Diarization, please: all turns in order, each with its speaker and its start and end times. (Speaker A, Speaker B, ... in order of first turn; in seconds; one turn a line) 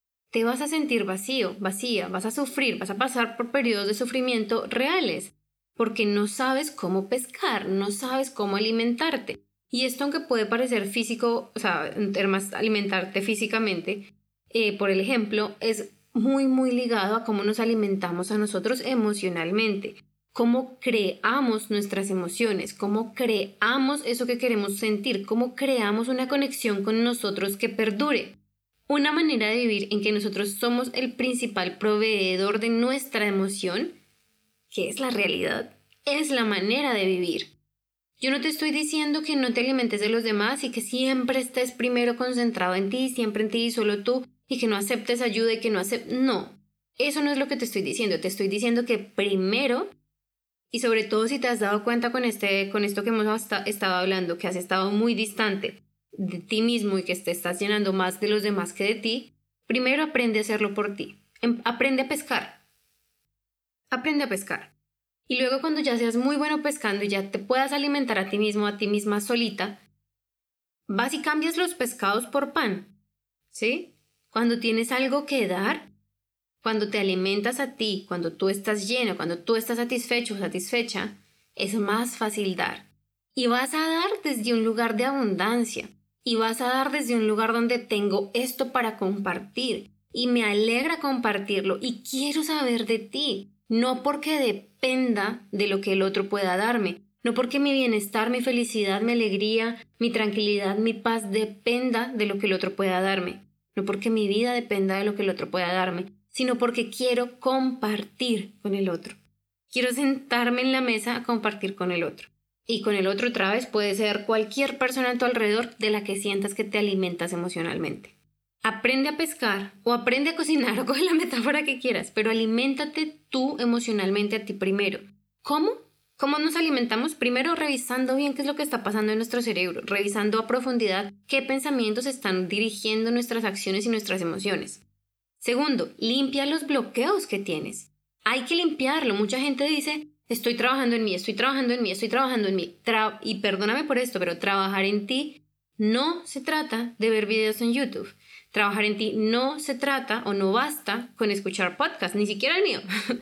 Speaker A: 0.3-28.3
Speaker A: 28.9-33.9
Speaker A: 34.7-37.5
Speaker A: 38.2-49.9
Speaker A: 50.7-62.6
Speaker A: 63.9-64.7
Speaker A: 65.3-69.8
Speaker A: 70.9-72.9
Speaker A: 73.5-75.9
Speaker A: 76.6-109.2
Speaker A: 109.7-134.8
Speaker A: 135.4-152.8